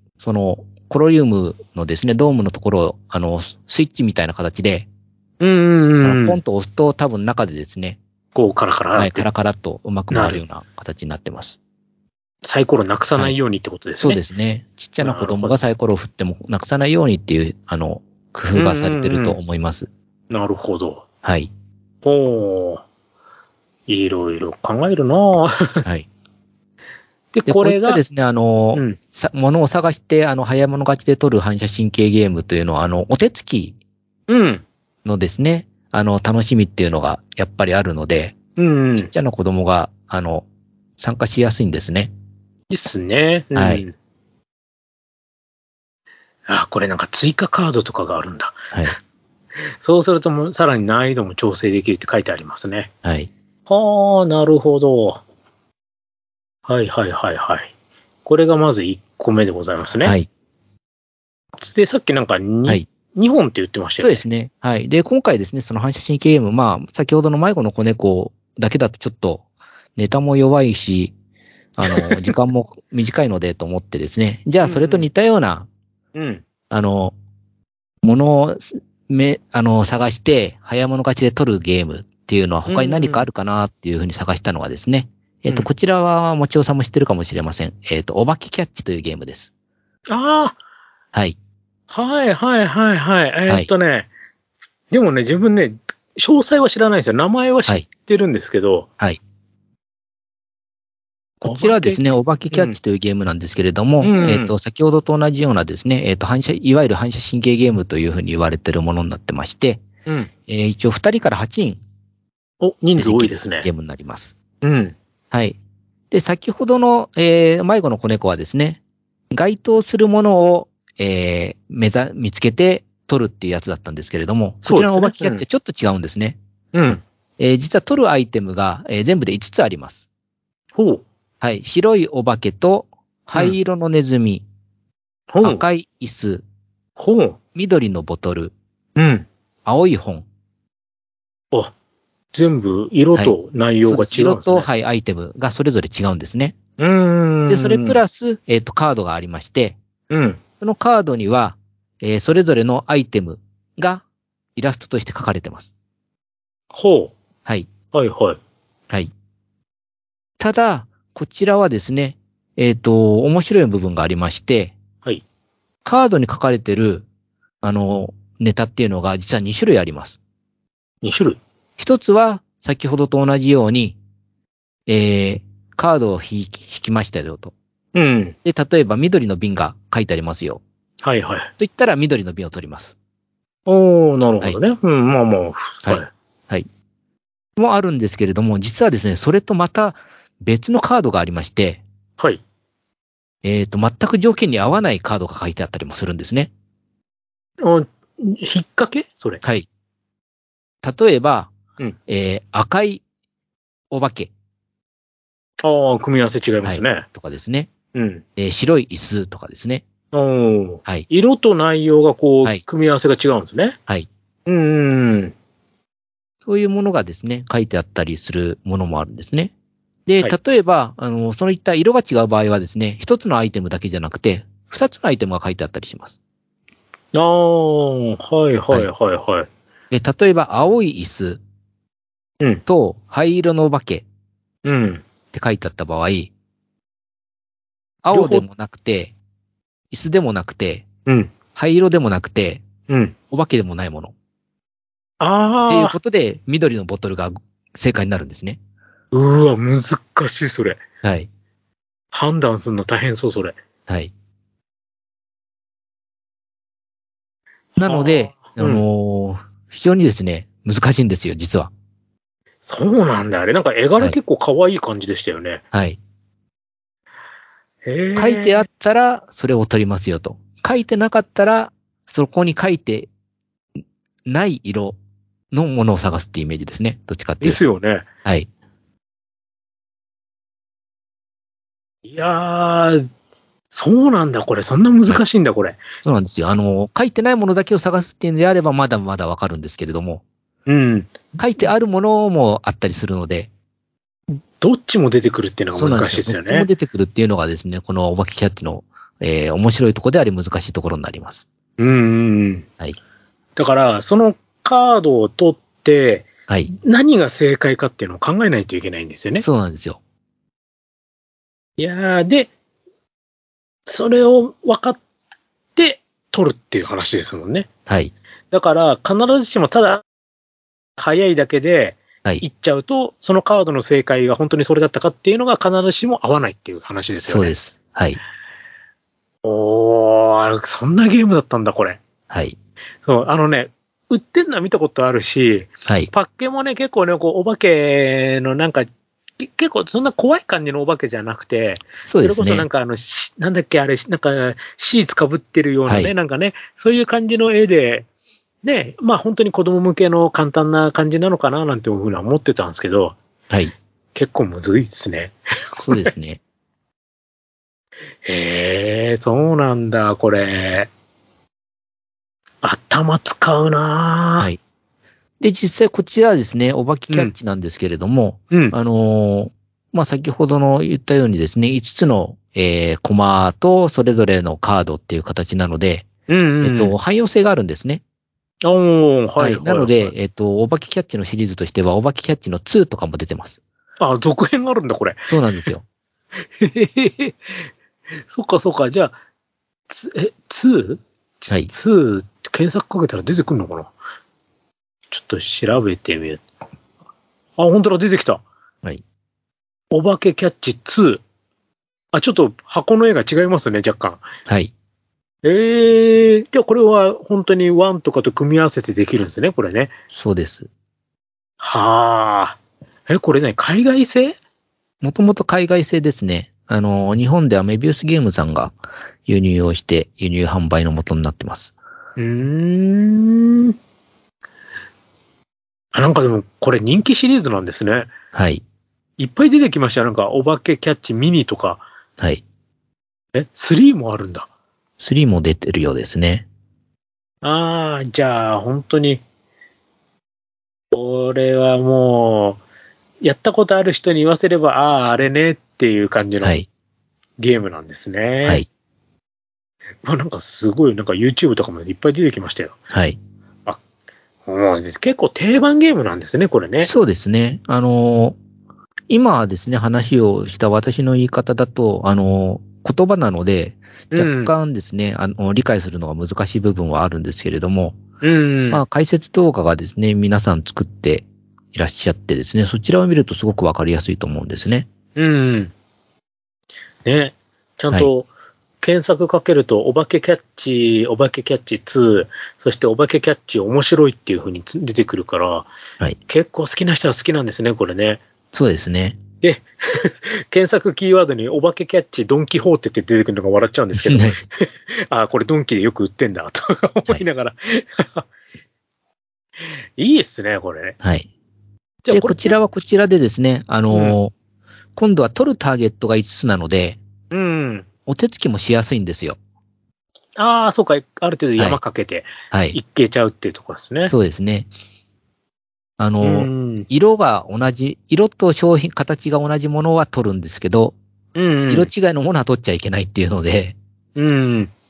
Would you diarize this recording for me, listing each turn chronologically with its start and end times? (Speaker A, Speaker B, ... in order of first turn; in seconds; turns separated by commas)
Speaker A: 0.2-4.9, Speaker B: 5.4-6.4, Speaker A: 6.0-8.0, Speaker B: 8.3-9.3, Speaker A: 9.0-11.6, Speaker B: 10.1-10.4, Speaker B: 12.4-14.2, Speaker A: 14.0-19.9, Speaker B: 15.0-15.6, Speaker B: 18.5-19.4, Speaker B: 20.3-21.0, Speaker A: 21.2-21.5, Speaker B: 22.0-22.8, Speaker B: 23.9-25.9, Speaker B: 27.3-28.0, Speaker A: 27.5-33.8, Speaker B: 34.3-34.6, Speaker A: 35.0-38.4, Speaker B: 38.6-39.1, Speaker A: 39.1-40.5, Speaker A: 41.0-42.1, Speaker B: 42.7-43.9, Speaker A: 43.5-43.8, Speaker B: 46.5-48.9, Speaker B: 49.8-52.9, Speaker A: 53.0-53.3, Speaker B: 53.7-55.2, Speaker B: 56.7-57.7, Speaker B: 58.2-60.2, Speaker B: 61.6-64.2, Speaker A: 64.0-69.4, Speaker A: 70.0-71.1, Speaker A: 71.8-75.7, Speaker B: 71.8-72.3, Speaker B: 74.6-75.1, Speaker B: 76.2-76.4, Speaker A: 76.7-77.1, Speaker A: 78.0-89.5, Speaker B: 82.7-83.3, Speaker B: 90.1-90.6, Speaker B: 91.9-94.1, Speaker B: 94.9-98.9, Speaker A: 101.4-109.8, Speaker B: 101.4-102.8, Speaker B: 104.0-104.5, Speaker A: 110.5-111.8, Speaker B: 112.6-113.7, Speaker A: 113.0-114.3, Speaker B: 114.6-115.0, Speaker A: 115.3-115.6, Speaker A: 116.1-118.8, Speaker A: 119.3-126.4, Speaker B: 124.6-125.4, Speaker B: 126.7-127.0, Speaker A: 127.4-130.0, Speaker B: 130.8-131.1, Speaker A: 131.4-134.4, Speaker B: 135.3-135.6, Speaker A: 135.4-136.4, Speaker B: 137.0-137.4, Speaker A: 137.6-138.5, Speaker B: 139.0-139.3, Speaker A: 139.7-140.3, Speaker B: 142.3-144.7, Speaker A: 143.2-146.6, Speaker B: 146.8-148.0, Speaker A: 147.5-149.8, Speaker B: 150.1-150.4, Speaker A: 150.6-154.0, Speaker A: 154.6-155.7, Speaker B: 156.7-157.1, Speaker B: 157.9-158.4, Speaker A: 160.4-164.7, Speaker A: 165.8-167.1, Speaker A: 167.6-170.2, Speaker B: 171.0-171.4, Speaker A: 171.8-174.0, Speaker A: 174.9-177.5, Speaker B: 177.9-178.4, Speaker A: 178.4-180.6, Speaker B: 181.0-181.5, Speaker A: 181.6-182.9, Speaker B: 183.7-186.1, Speaker A: 185.8-186.7, Speaker A: 187.6-191.8, Speaker A: 193.4-196.5, Speaker B: 197.6-199.4, Speaker A: 200.8-201.5, Speaker A: 202.1-203.0, Speaker A: 203.9-204.3, Speaker B: 205.6-207.1, Speaker A: 206.6-207.7, Speaker B: 207.9-208.2, Speaker A: 208.4-209.8, Speaker B: 210.1-213.8, Speaker B: 214.5-215.3, Speaker A: 216.4-219.5, Speaker A: 220.1-226.2, Speaker B: 227.1-229.5, Speaker A: 229.9-231.4, Speaker A: 232.7-234.1, Speaker B: 234.7-235.0, Speaker A: 235.3-236.3, Speaker A: 238.0-239.1, Speaker B: 238.1-238.4, Speaker A: 239.9-240.9, Speaker B: 241.1-241.3, Speaker A: 241.6-242.6, Speaker B: 242.9-243.2, Speaker A: 243.3-244.1, Speaker B: 245.2-246.0, Speaker A: 245.7-248.6, Speaker B: 249.1-250.8, Speaker A: 251.0-251.3, Speaker B: 252.1-253.6, Speaker A: 253.9-254.1, Speaker A: 257.8-261.7, Speaker B: 257.8-258.8, Speaker B: 262.7-265.6, Speaker A: 265.7-266.0, Speaker B: 267.9-268.6, Speaker A: 268.2-273.1, Speaker A: 274.3-275.0, Speaker A: 275.5-277.6, Speaker B: 277.4-278.1, Speaker B: 282.1-283.1, Speaker B: 283.7-285.9, Speaker A: 286.0-290.2, Speaker B: 290.7-291.2, Speaker A: 291.4-293.5, Speaker B: 294.3-296.7, Speaker A: 295.7-301.4, Speaker B: 301.8-302.7, Speaker B: 303.6-309.4, Speaker A: 309.4-310.0, Speaker B: 311.8-312.5, Speaker B: 313.9-315.0, Speaker B: 315.8-317.7, Speaker A: 317.9-318.1, Speaker B: 318.5-320.0, Speaker B: 321.0-327.5, Speaker A: 327.2-328.2, Speaker B: 329.4-332.0, Speaker A: 332.3-332.6, Speaker B: 333.1-338.9, Speaker B: 339.4-348.1, Speaker A: 342.0-342.7, Speaker A: 345.9-346.1, Speaker B: 348.6-353.2, Speaker B: 354.1-356.1, Speaker A: 355.8-356.4, Speaker B: 358.2-360.9, Speaker B: 362.6-364.5, Speaker A: 365.4-376.1, Speaker B: 368.5-368.8, Speaker B: 376.3-376.9, Speaker A: 376.6-378.0, Speaker B: 378.6-380.1, Speaker A: 379.4-383.6, Speaker B: 384.0-385.7, Speaker A: 385.3-385.8, Speaker B: 386.4-387.7, Speaker B: 388.3-389.2, Speaker B: 389.9-393.9, Speaker B: 395.1-396.4, Speaker B: 397.6-398.4, Speaker B: 399.9-401.2, Speaker B: 402.1-404.2, Speaker A: 404.5-404.7, Speaker B: 405.4-409.9, Speaker A: 410.1-410.7, Speaker B: 411.6-414.4, Speaker A: 415.0-421.7, Speaker B: 422.2-423.8, Speaker B: 425.9-428.1, Speaker A: 428.3-428.6, Speaker B: 429.2-431.9, Speaker B: 433.4-434.5, Speaker A: 435.0-436.5, Speaker B: 437.4-439.2, Speaker B: 440.9-442.6, Speaker B: 443.2-446.6, Speaker A: 446.4-446.7, Speaker B: 447.4-448.6, Speaker B: 450.0-452.8, Speaker A: 452.9-453.2, Speaker B: 454.5-456.9, Speaker A: 456.8-458.4, Speaker A: 459.1-468.0, Speaker B: 464.1-464.5, Speaker B: 468.2-468.8, Speaker A: 468.7-474.9, Speaker B: 475.1-475.7, Speaker B: 477.1-478.3, Speaker B: 478.8-485.7, Speaker B: 486.3-488.2, Speaker A: 488.5-489.2, Speaker B: 489.4-498.3, Speaker A: 493.9-494.4, Speaker B: 499.6-501.0, Speaker A: 501.0-501.3, Speaker B: 502.1-502.6, Speaker A: 502.1-504.3, Speaker B: 503.9-504.2, Speaker A: 505.0-507.0, Speaker B: 507.3-507.9, Speaker A: 508.1-509.4, Speaker B: 510.4-514.1, Speaker A: 512.5-512.8, Speaker A: 514.1-514.7, Speaker A: 516.0-521.0, Speaker B: 516.2-516.9, Speaker B: 521.4-521.9, Speaker A: 521.7-523.8, Speaker B: 524.2-524.7